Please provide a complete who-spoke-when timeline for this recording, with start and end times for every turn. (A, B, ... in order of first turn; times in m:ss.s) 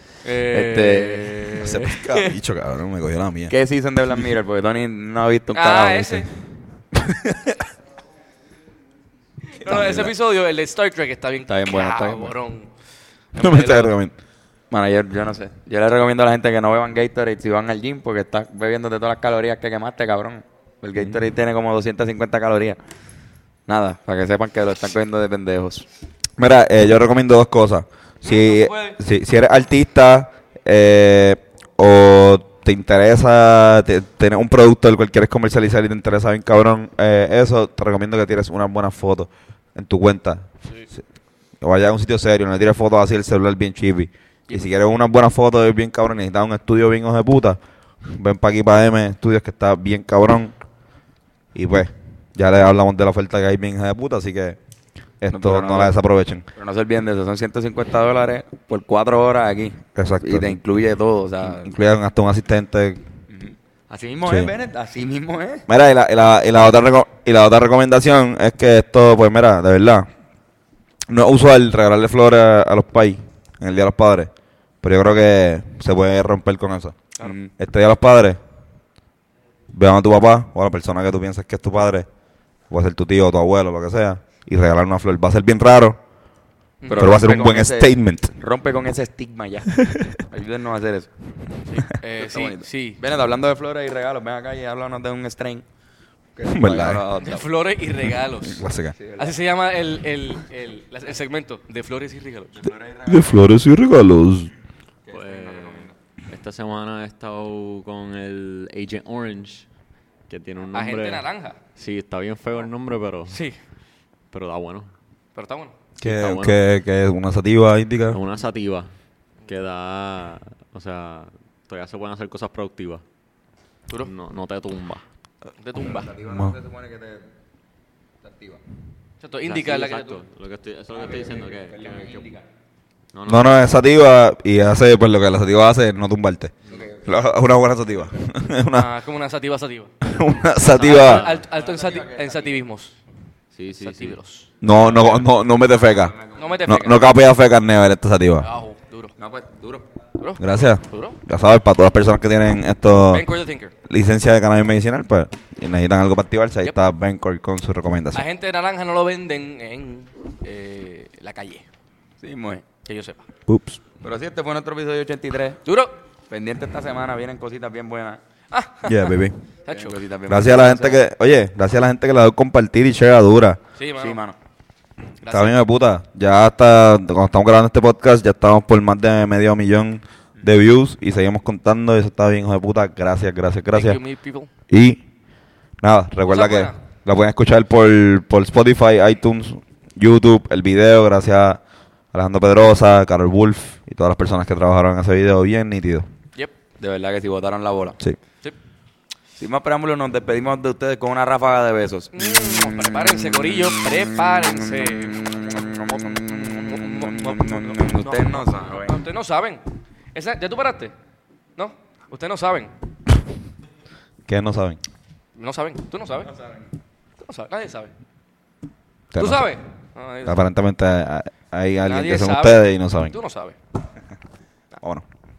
0:00.2-0:02.3 A
0:00.4-0:01.7 B
0:01.6-0:03.5 C
0:03.5-0:06.3 B
0:05.5-0:06.3 A
0:07.0-0:07.6 C
0:09.6-0:12.7 A
0:09.6-0:10.1 C
0:11.5-0:12.3 B
0:13.3-0:13.9 A
0:13.4-0:14.1 C
0:14.7-0:22.8 B
0:23.7-0:25.9 B
0:26.4-0:41.0 C
0:28.2-0:29.0 A
0:41.6-0:47.6 C
0:48.1-0:50.5 C
0:51.6-0:54.6 C
0:55.2-0:56.4 C
0:55.3-0:56.0 B
0:56.6-1:01.7 B
1:00.0-1:00.6 C
1:01.4-1:03.0 C
1:03.3-1:05.7 B
1:04.3-1:04.5 C
1:05.7-1:10.1 C
1:11.1-1:14.3 C
1:14.8-1:17.0 C
1:17.2-1:17.5 B
1:17.6-1:18.4 C
1:19.7-1:22.1 C
1:22.7-1:26.0 C
1:26.8-1:27.1 A
1:26.9-1:31.1 B
1:27.0-1:28.3 C
1:31.7-1:33.0 A
1:32.2-1:35.6 B
1:36.4-1:37.4 B
1:36.5-1:37.0 C
1:37.2-1:38.6 A
1:38.4-1:39.0 C
1:39.0-1:39.4 B
1:39.2-1:42.7 A
1:42.6-1:43.4 B
1:43.1-1:44.5 C
1:45.0-1:45.9 B
1:45.1-1:49.7 D
1:50.3-1:51.2 D
1:50.7-1:51.6 A
1:51.8-1:53.4 D
1:53.3-1:53.6 A
1:54.3-1:54.9 D
1:55.3-1:55.7 A
1:56.0-1:58.2 C
1:56.0-1:56.6 D
1:58.1-1:59.0 D
1:59.4-2:03.0 D
2:04.0-2:05.0 D
2:05.6-2:06.1 A
2:05.8-2:07.2 B
2:06.3-2:06.6 C
2:08.2-2:08.6 B
2:09.2-2:10.1 A
2:09.4-2:12.3 D
2:09.9-2:10.2 B
2:10.9-2:12.4 B
2:13.1-2:13.6 D
2:13.3-2:16.5 C
2:16.7-2:17.2 B
2:17.0-2:18.9 C
2:18.7-2:19.9 A
2:20.0-2:21.3 C
2:20.6-2:21.4 D
2:20.8-2:23.0 A
2:21.4-2:22.6 B
2:23.5-2:24.2 D
2:23.8-2:25.2 A
2:24.6-2:26.1 C
2:25.9-2:26.6 B
2:26.4-2:27.0 A
2:26.7-2:28.5 C
2:28.4-2:29.1 A
2:29.2-2:29.8 B
2:30.2-2:31.2 A
2:30.4-2:33.3 C
2:33.1-2:33.7 A
2:33.9-2:38.2 C
2:38.1-2:41.6 A
2:42.2-2:42.7 B
2:42.8-2:43.2 A
2:43.5-2:43.8 C
2:44.0-2:45.6 B
2:45.7-2:46.0 A
2:46.3-2:48.2 B
2:48.5-2:49.1 A
2:48.8-2:49.4 C
2:49.7-2:50.0 A
2:49.7-2:51.0 B
2:50.3-2:53.6 C
2:53.8-2:54.2 A
2:54.0-2:54.4 B
2:55.2-2:55.6 A
2:55.3-3:04.0 C
3:03.7-3:04.5 A
3:04.7-3:05.0 C
3:05.8-3:11.6 C
3:06.3-3:06.7 A
3:12.1-3:16.0 C
3:16.8-3:18.0 B
3:19.4-3:29.0 B
3:22.1-3:29.6 A
3:30.1-3:30.9 A
3:31.6-3:32.7 A
3:34.3-3:34.8 C
3:35.4-3:36.3 A
3:37.2-3:37.9 A
3:39.1-3:39.5 C
3:39.2-3:40.4 A
3:40.2-3:43.1 C
3:41.9-3:43.6 A